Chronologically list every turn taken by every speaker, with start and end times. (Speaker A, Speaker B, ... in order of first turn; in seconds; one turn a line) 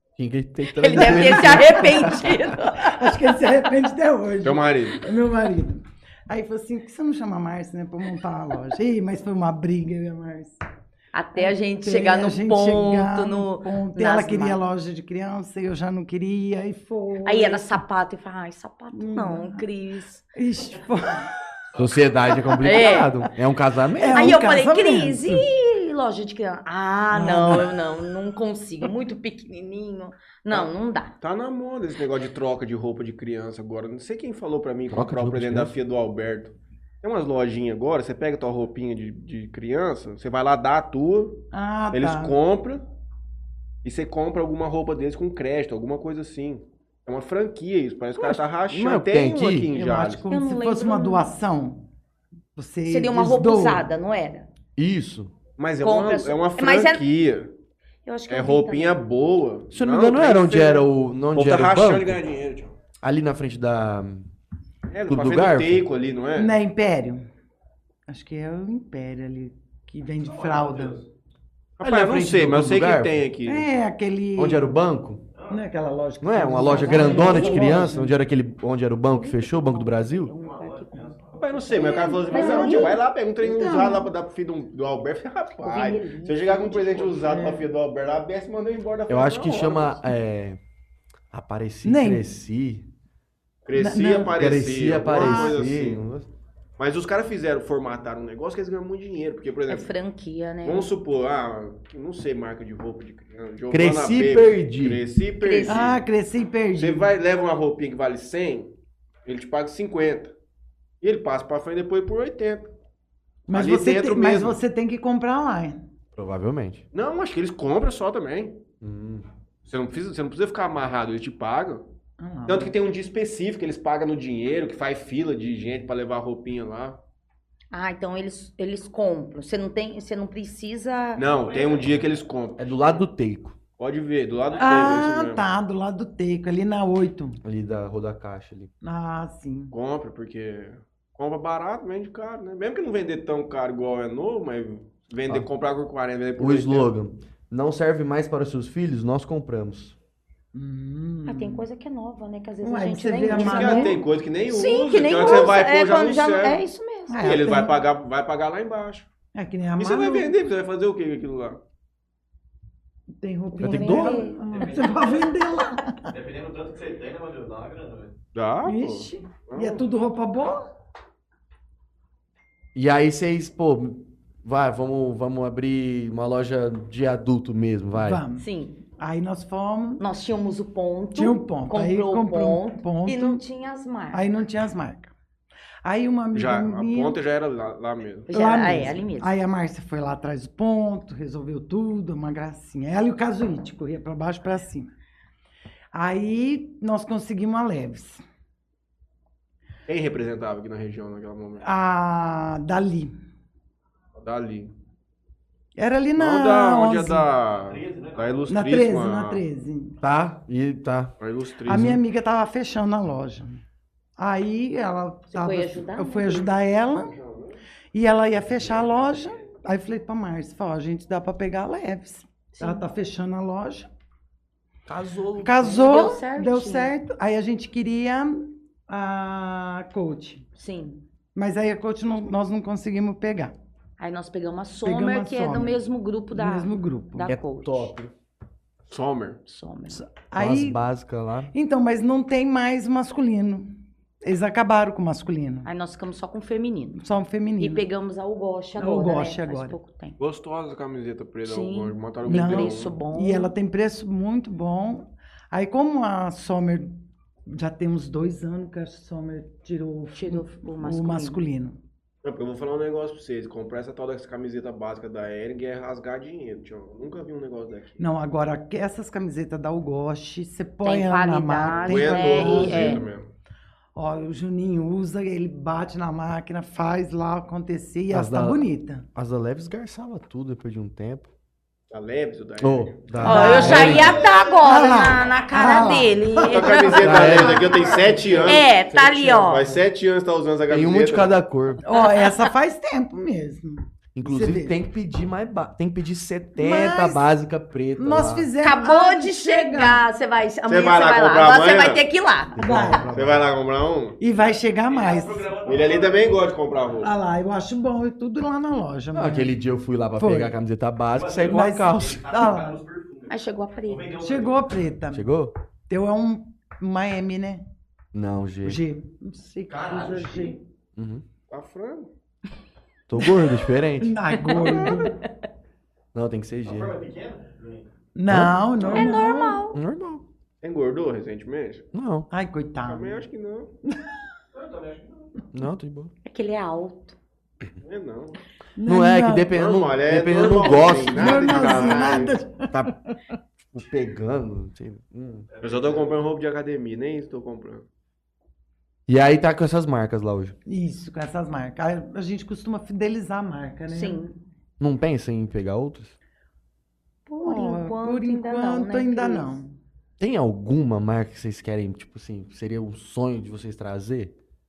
Speaker A: 0.2-2.5
Speaker B: 0.8-3.2
Speaker C: 0.9-2.1
Speaker C: 2.8-10.6
Speaker D: 4.4-5.1
Speaker B: 11.1-14.6
Speaker C: 11.4-17.8
Speaker B: 17.2-20.2
Speaker C: 18.9-19.6
Speaker C: 20.4-21.3
Speaker A: 21.8-24.4
Speaker C: 22.5-23.1
Speaker B: 22.6-23.3
Speaker C: 24.0-25.4
Speaker B: 24.1-31.1
Speaker C: 27.1-27.8
Speaker D: 30.5-42.8
Speaker A: 34.9-35.8
Speaker C: 41.5-42.4
Speaker D: 43.8-50.2
Speaker A: 48.2-49.7
Speaker C: 49.7-51.8
Speaker B: 50.3-51.3
Speaker C: 52.5-53.9
Speaker B: 52.9-54.5
Speaker A: 54.8-55.3
Speaker D: 55.6-57.5
Speaker B: 55.8-57.0
Speaker B: 58.0-59.0
Speaker D: 58.3-62.8
Speaker A: 59.7-62.2
Speaker A: 63.0-64.3
Speaker D: 64.9-66.6
Speaker A: 65.1-65.9
Speaker C: 66.4-67.3
Speaker C: 68.1-71.0
Speaker E: 70.2-71.1
Speaker D: 71.8-73.7
Speaker A: 71.8-73.2
Speaker C: 73.5-74.7
Speaker A: 74.4-75.2
Speaker E: 75.3-75.7
Speaker C: 75.5-78.1
Speaker A: 76.2-80.3
Speaker B: 76.6-78.0
Speaker B: 79.1-83.0
Speaker E: 80.4-81.9
Speaker D: 81.4-90.0
Speaker C: 81.7-84.1
Speaker B: 85.6-87.4
Speaker C: 87.2-87.7
Speaker A: 89.1-90.6
Speaker A: 91.3-92.9
Speaker C: 91.8-92.2
Speaker D: 93.7-96.0
Speaker C: 93.7-94.3
Speaker A: 94.3-96.3
Speaker C: 95.1-95.6
Speaker D: 96.8-99.9
Speaker B: 99.7-100.9
Speaker D: 100.6-106.0
Speaker A: 103.7-105.0
Speaker B: 105.4-105.9
Speaker C: 105.7-107.1
Speaker D: 106.8-110.3
Speaker D: 111.0-112.7
Speaker C: 113.5-115.8
Speaker D: 113.5-114.6
Speaker A: 116.2-116.8
Speaker D: 116.9-118.6
Speaker A: 118.8-119.3
Speaker D: 119.7-121.8
Speaker C: 122.2-122.7
Speaker D: 122.5-127.0
Speaker B: 127.7-131.2
Speaker D: 131.2-133.0
Speaker E: 131.3-132.2
Speaker A: 132.6-133.6
Speaker D: 133.8-135.5
Speaker C: 134.6-137.4
Speaker A: 137.4-138.7
Speaker C: 138.8-139.7
Speaker D: 139.7-146.9
Speaker A: 146.4-150.0
Speaker C: 150.5-151.7
Speaker B: 151.3-157.4
Speaker C: 152.6-154.0
Speaker D: 153.3-156.7
Speaker C: 157.1-157.7
Speaker D: 157.2-159.1
Speaker C: 159.3-160.3
Speaker D: 159.8-161.6
Speaker C: 163.2-166.1
Speaker B: 163.6-164.4
Speaker A: 163.6-164.3
Speaker E: 164.5-165.4
Speaker E: 166.1-168.1
Speaker D: 168.3-169.8
Speaker C: 168.7-170.6
Speaker A: 172.8-178.2
Speaker C: 177.9-180.0
Speaker B: 178.4-178.8
Speaker B: 180.0-184.2
Speaker C: 181.2-183.4
Speaker C: 184.1-185.1
Speaker C: 185.8-187.2
Speaker D: 186.3-188.3
Speaker B: 188.3-189.3
Speaker C: 188.3-194.9
Speaker C: 195.9-198.2
Speaker D: 199.9-201.7
Speaker C: 201.6-203.1
Speaker D: 204.2-204.7
Speaker C: 205.8-207.3
Speaker D: 206.2-209.4
Speaker E: 207.6-208.5
Speaker C: 208.5-210.0
Speaker A: 210.0-211.1
Speaker D: 211.2-212.0
Speaker C: 211.7-213.6
Speaker A: 211.7-212.0
Speaker C: 214.2-217.2
Speaker B: 215.3-216.5
Speaker D: 216.9-217.6
Speaker C: 217.9-223.9
Speaker D: 218.6-219.3
Speaker B: 222.5-222.9
Speaker A: 224.9-226.1
Speaker C: 225.4-230.5
Speaker B: 225.8-226.9
Speaker B: 230.6-231.0
Speaker C: 231.3-233.6
Speaker B: 234.0-237.9
Speaker C: 234.8-235.8
Speaker C: 236.3-237.3
Speaker A: 237.3-238.1
Speaker D: 238.9-239.4
Speaker B: 239.5-240.0
Speaker C: 239.9-240.8
Speaker A: 240.4-241.5
Speaker C: 241.5-243.7
Speaker C: 244.2-245.7
Speaker B: 245.6-247.0
Speaker C: 247.0-247.8
Speaker B: 247.6-250.2
Speaker C: 248.8-249.8
Speaker D: 250.2-253.0
Speaker B: 251.4-253.5
Speaker C: 252.3-256.9
Speaker C: 257.5-261.8
Speaker B: 260.1-261.4
Speaker D: 262.2-268.0
Speaker C: 268.0-273.1
Speaker B: 270.8-273.0
Speaker D: 271.7-273.3
Speaker C: 273.9-279.1
Speaker A: 278.1-281.3
Speaker D: 281.9-284.0
Speaker A: 282.6-284.2
Speaker C: 283.2-288.5
Speaker B: 283.2-287.2
Speaker E: 283.6-285.9
Speaker D: 286.4-288.7
Speaker A: 287.0-287.8
Speaker E: 287.3-288.5
Speaker B: 288.4-289.8
Speaker D: 289.3-291.4
Speaker A: 290.7-291.8
Speaker C: 291.8-294.8
Speaker B: 291.9-292.5
Speaker A: 294.2-298.5
Speaker C: 296.6-297.2
Speaker C: 298.0-300.0
Speaker B: 298.6-302.6
Speaker D: 300.7-302.0
Speaker A: 302.6-303.5
Speaker C: 302.6-303.1
Speaker D: 303.1-304.2
Speaker C: 304.2-305.6
Speaker E: 304.9-306.5
Speaker D: 305.6-307.1
Speaker C: 307.0-309.6
Speaker A: 309.1-312.4
Speaker C: 310.2-310.5
Speaker E: 311.1-314.7
Speaker C: 311.4-312.8
Speaker B: 313.3-314.1
Speaker C: 314.2-315.3
Speaker A: 315.1-315.5
Speaker C: 315.9-317.6
Speaker A: 318.1-318.8
Speaker C: 318.6-320.6
Speaker E: 319.7-320.6
Speaker A: 321.0-321.2
Speaker D: 321.5-322.1
Speaker A: 323.1-324.2
Speaker C: 324.0-325.2
Speaker B: 324.4-325.3
Speaker A: 326.1-327.0
Speaker E: 326.6-327.9
Speaker C: 328.1-329.6
Speaker A: 328.3-329.0
Speaker B: 328.8-329.8
Speaker A: 329.7-330.2
Speaker D: 330.6-331.9
Speaker A: 331.9-332.3
Speaker C: 332.3-333.2
Speaker D: 332.8-333.7
Speaker C: 333.9-334.2
Speaker E: 334.5-335.4
Speaker A: 335.5-336.1
Speaker B: 336.2-337.2
Speaker D: 337.8-338.4
Speaker C: 338.8-339.6
Speaker A: 338.9-342.9
Speaker D: 339.5-342.4
Speaker C: 340.9-343.2
Speaker A: 343.7-345.5
Speaker E: 345.5-346.2
Speaker D: 345.6-347.9
Speaker A: 349.1-350.6
Speaker C: 350.7-354.2
Speaker B: 353.9-354.4
Speaker A: 354.8-356.2
Speaker B: 357.3-359.6
Speaker C: 357.4-359.8
Speaker A: 360.2-364.4